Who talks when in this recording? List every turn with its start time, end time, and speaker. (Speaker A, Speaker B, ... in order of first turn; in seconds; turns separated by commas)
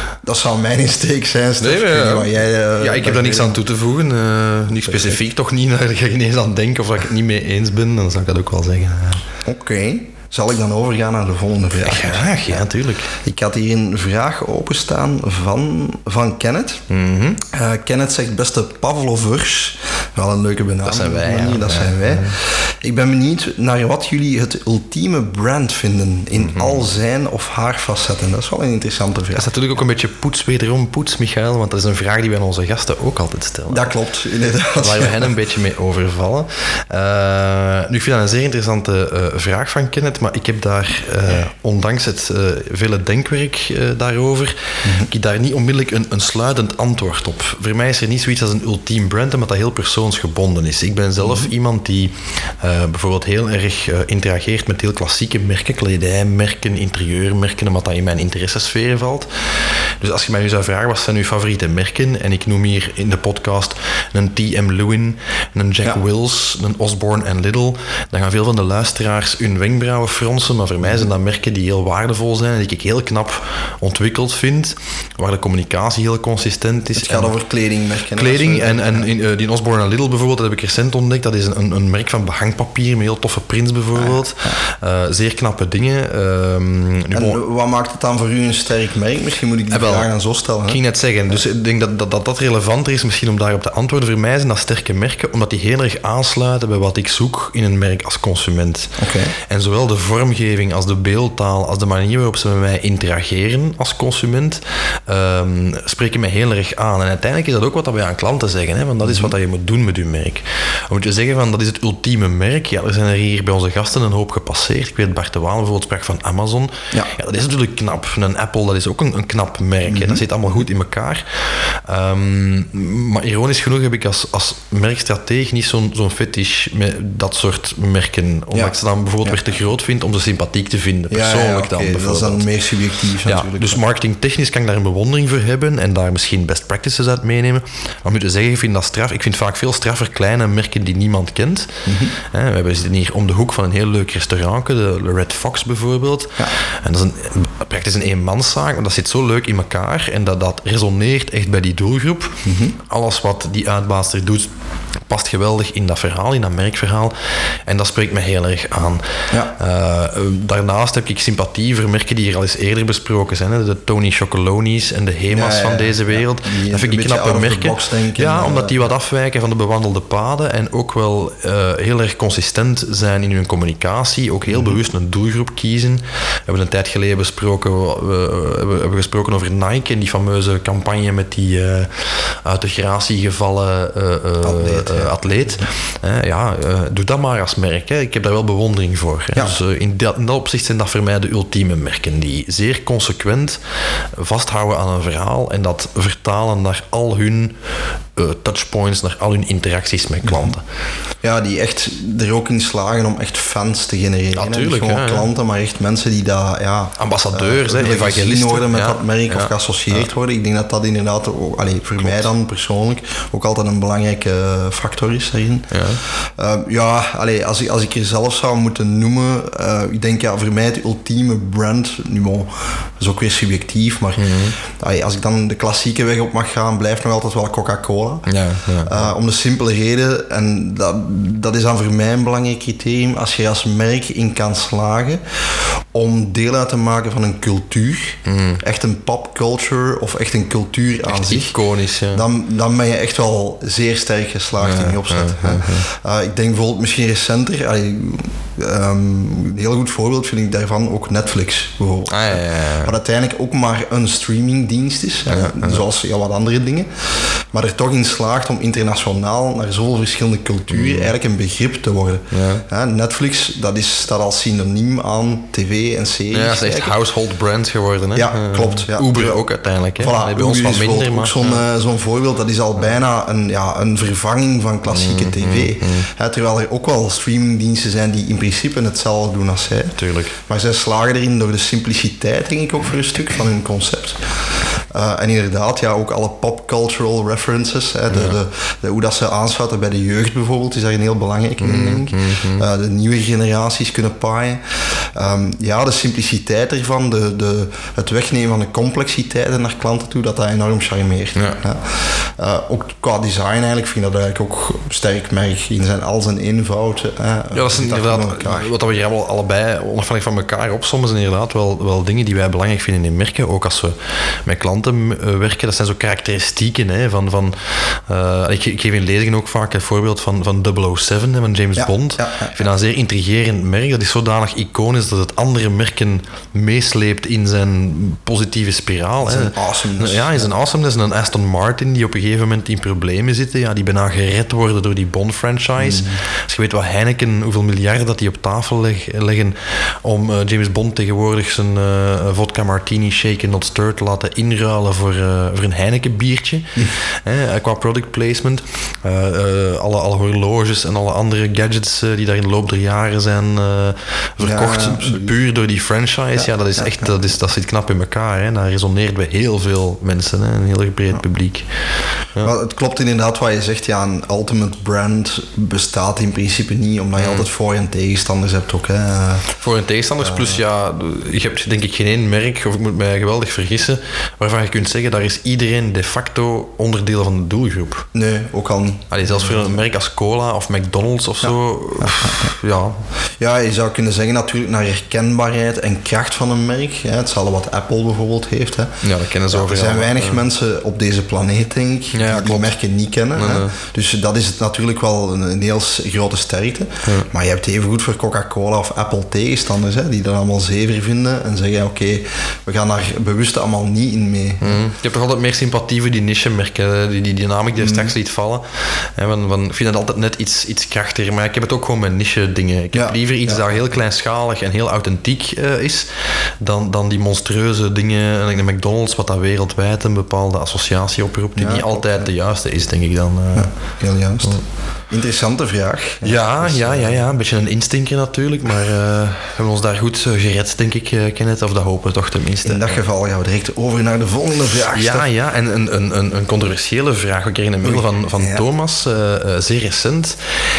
Speaker A: 0.2-3.6, Speaker B: 1.6-9.2, Speaker A: 4.8-5.2, Speaker A: 9.5-12.6, Speaker B: 11.8-13.1, Speaker A: 13.2-16.8, Speaker B: 16.9-17.4, Speaker A: 17.5-29.5, Speaker B: 20.8-22.4, Speaker B: 26.4-26.9, Speaker B: 29.3-33.9, Speaker A: 33.7-35.3, Speaker B: 34.8-59.3, Speaker A: 44.8-45.1, Speaker A: 51.2-51.5, Speaker B: 60.0-77.3, Speaker A: 77.0-79.1, Speaker B: 78.1-87.4, Speaker A: 84.0-84.6, Speaker A: 87.1-90.8, Speaker B: 89.7-90.1, Speaker B: 90.7-98.9, Speaker A: 99.0-99.3, Speaker B: 99.5-132.4, Speaker A: 109.0-109.3, Speaker A: 119.9-120.2, Speaker A: 128.5-129.4, Speaker A: 131.1-133.8, Speaker B: 133.2-154.5, Speaker A: 141.9-142.1, Speaker A: 152.5-152.8, Speaker B: 155.1-193.6, Speaker A: 165.3-168.8, Speaker A: 174.5-174.8, Speaker A: 184.4-185.1, Speaker B: 194.2-197.6, Speaker B: 198.2-200.6, Speaker A: 200.2-200.5, Speaker A: 201.2-228.3, Speaker B: 204.3-205.3, Speaker B: 207.0-210.1, Speaker B: 212.0-212.3, Speaker B: 215.7-216.0, Speaker B: 224.2-224.6, Speaker B: 228.3-229.0, Speaker A: 228.8-241.5, Speaker B: 238.2-238.6, Speaker B: 241.1-242.2, Speaker A: 242.1-266.9, Speaker B: 244.6-245.9, Speaker B: 252.1-252.9, Speaker B: 255.3-255.8, Speaker B: 260.7-261.1, Speaker B: 262.3-262.6, Speaker B: 266.3-271.6, Speaker A: 268.1-269.4, Speaker A: 270.0-308.7, Speaker B: 274.9-276.1, Speaker B: 280.0-280.4, Speaker B: 288.1-288.4, Speaker B: 291.6-292.7, Speaker B: 301.4-301.6, Speaker B: 307.5-361.7, Speaker A: 321.8-322.7, Speaker A: 329.2-330.5, Speaker A: 335.8-336.2, Speaker A: 354.4-355.4, Speaker A: 356.4-357.1, Speaker A: 362.4-369.5, Speaker B: 367.2-367.5, Speaker B: 369.6-378.1, Speaker A: 370.2-370.6, Speaker A: 378.1-379.7, Speaker B: 379.1-383.0, Speaker A: 381.4-382.5, Speaker A: 383.4-389.0, Speaker B: 389.0-390.4, Speaker A: 389.5-404.8, Speaker B: 392.1-392.7, Speaker B: 393.4-393.8, Speaker B: 404.6-416.1, Speaker A: 407.8-408.1, Speaker A: 412.9-413.6, Speaker B: 416.6-423.8, Speaker A: 421.6-422.3, Speaker A: 423.6-424.6, Speaker A: 425.1-427.2, Speaker B: 426.2-433.0, Speaker A: 432.6-435.3, Speaker B: 434.9-440.4, Speaker A: 437.8-438.6